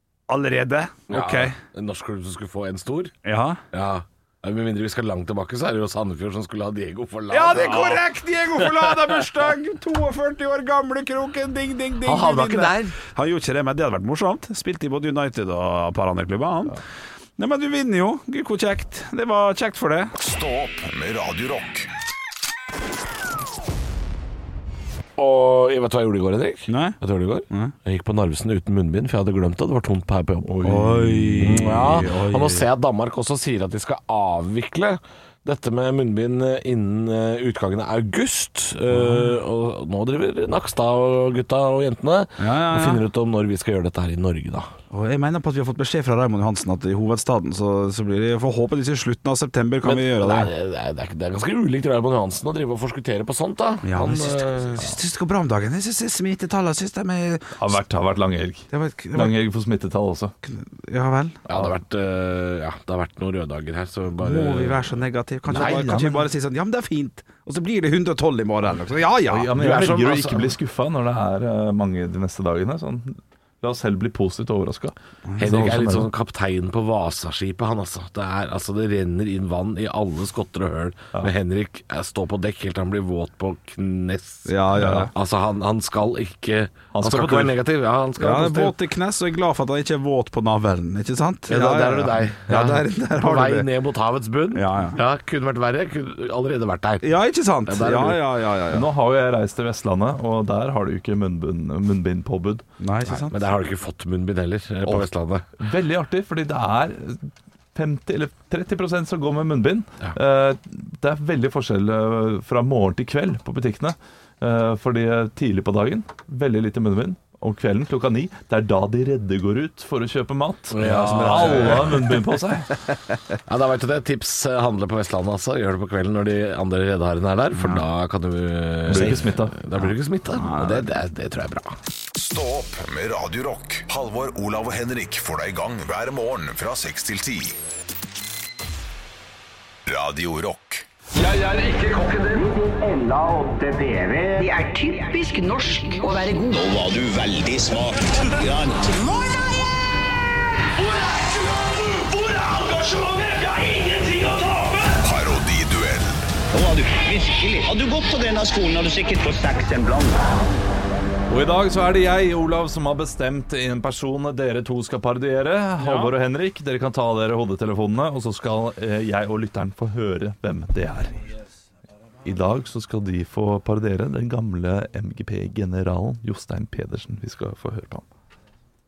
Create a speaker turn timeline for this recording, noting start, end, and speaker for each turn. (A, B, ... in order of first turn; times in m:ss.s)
0:00.3-0:01.6 A
0:01.1-0:03.1 B
0:03.2-0:03.6 A
0:03.7-0:08.0 B
0:07.3-0:16.8 A
0:12.0-0:12.9 B
0:17.4-0:20.1 A
0:20.2-0:21.9 C
0:25.2-0:30.6 B
0:26.7-0:27.8 A
0:30.4-0:31.6 D
0:30.6-0:32.7 A
0:31.3-0:44.7 B
0:38.9-0:39.2 A
0:42.4-0:43.0 A
0:44.9-0:50.5 A
0:49.8-0:54.9 B
0:53.8-0:57.8 A
0:57.6-1:00.3 D
0:58.7-0:59.4 A
1:00.4-1:01.4 A
1:01.5-1:05.0 B
1:04.2-1:09.5 A
1:05.5-1:06.2 D
1:05.5-1:05.9 B
1:09.3-1:16.0 D
1:09.6-1:10.5 B
1:15.3-1:16.0 A
1:15.4-1:28.8 B
1:24.5-1:25.1 A
1:24.8-1:25.1 D
1:26.9-1:27.6 D
1:28.2-1:33.7 A
1:31.5-1:37.0 B
1:34.5-1:35.0 A
1:37.0-1:38.9 A
1:37.6-1:38.2 B
1:38.7-1:42.6 D
1:42.8-1:43.5 A
1:43.0-1:45.4 B
1:45.6-2:02.7 D
2:00.7-2:02.0 B
2:00.9-2:01.8 A
2:03.5-2:11.8 B
2:07.6-2:07.9 A
2:08.9-2:09.6 D
2:09.8-2:10.9 A
2:12.2-2:17.6 C
2:19.9-2:20.8 C
2:21.4-2:29.3 E
2:30.8-2:34.9 F
2:35.0-2:36.3 C
2:36.5-2:40.3 E
2:41.3-2:51.2 D
2:45.8-2:46.1 A
2:52.2-2:58.1 D